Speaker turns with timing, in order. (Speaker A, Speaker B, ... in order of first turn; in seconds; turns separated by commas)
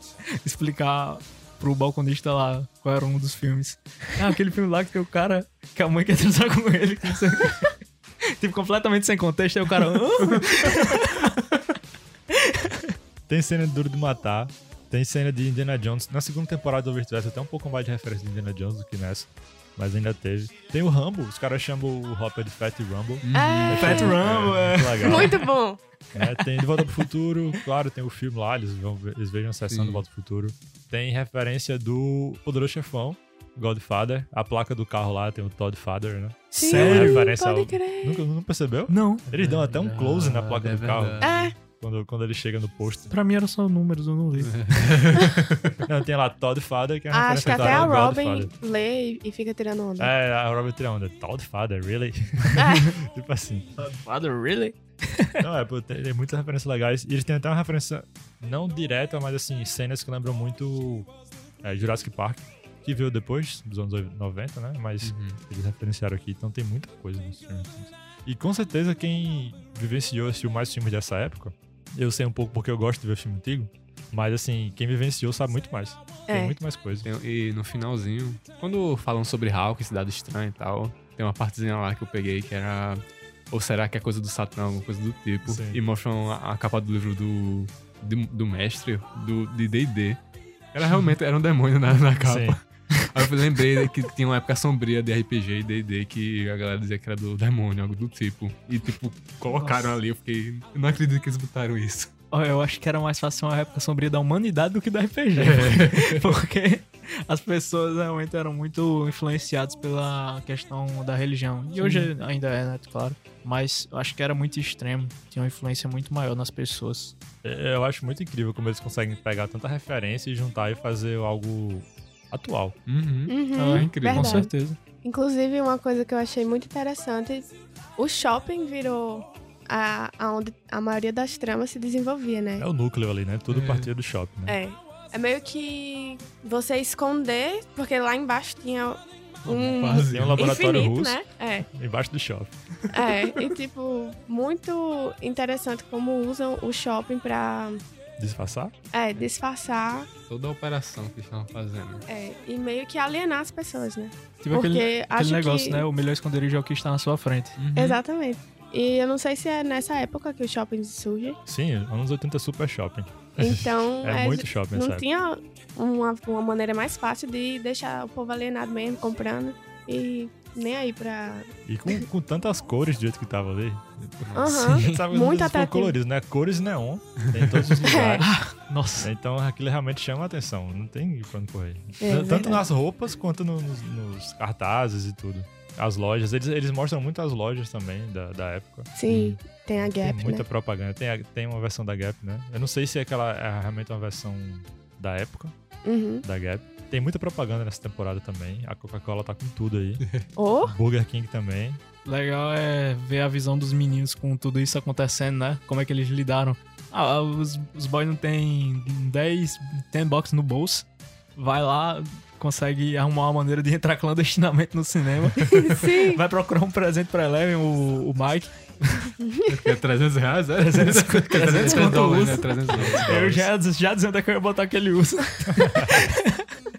Speaker A: 0.3-7.8, Speaker A: 8.4-11.3, Speaker A: 12.3-12.9, Speaker B: 13.3-25.4, Speaker C: 23.2-24.0, Speaker D: 23.3-24.2, Speaker A: 23.7-25.4, Speaker D: 25.0-25.8, Speaker B: 26.1-41.2, Speaker C: 29.7-30.0, Speaker A: 36.5-37.3, Speaker D: 36.6-38.2, Speaker A: 38.9-39.3, Speaker C: 39.3-41.5, Speaker D: 41.2-41.5, Speaker B: 41.8-43.1, Speaker A: 43.1-44.9, Speaker C: 44.4-45.8, Speaker B: 45.8-48.5, Speaker D: 47.1-50.1, Speaker C: 47.5-47.9, Speaker B: 50.0-53.7, Speaker D: 52.5-53.0, Speaker A: 53.8-55.4, Speaker B: 55.4-61.1, Speaker B: 61.6-77.1, Speaker C: 65.0-65.4, Speaker D: 76.3-76.6, Speaker C: 77.0-90.2, Speaker B: 85.5-85.8, Speaker C: 90.7-102.1, Speaker B: 92.2-92.6, Speaker A: 99.5-99.9, Speaker A: 102.3-117.1, Speaker C: 105.4-106.3, Speaker C: 111.8-112.1, Speaker B: 117.4-122.8, Speaker C: 122.9-124.5, Speaker D: 123.3-124.5, Speaker A: 123.5-124.8, Speaker D: 125.0-132.7, Speaker B: 132.6-134.6, Speaker C: 133.5-133.9, Speaker D: 134.4-141.7, Speaker C: 139.4-140.5, Speaker B: 140.1-142.5, Speaker D: 142.9-147.8, Speaker C: 143.1-143.4, Speaker B: 148.2-148.7, Speaker D: 148.9-150.1, Speaker C: 150.3-152.0, Speaker D: 152.1-155.8, Speaker A: 154.4-157.6, Speaker C: 157.6-158.0, Speaker D: 157.8-161.4, Speaker B: 161.4-165.0, Speaker D: 163.4-172.0, Speaker B: 171.7-178.3, Speaker C: 174.2-174.7, Speaker D: 174.3-175.9, Speaker A: 174.6-175.0, Speaker C: 177.3-177.8, Speaker D: 177.8-178.3, Speaker A: 178.2-179.1, Speaker B: 179.0-195.5, Speaker D: 182.0-182.6, Speaker D: 189.0-190.4, Speaker D: 195.8-196.2, Speaker B: 196.2-200.0, Speaker D: 200.4-200.8, Speaker B: 200.6-201.8, Speaker A: 202.0-219.1, Speaker D: 215.4-216.2, Speaker D: 219.2-219.7, Speaker C: 219.5-223.5, Speaker A: 220.6-226.5, Speaker B: 225.5-226.0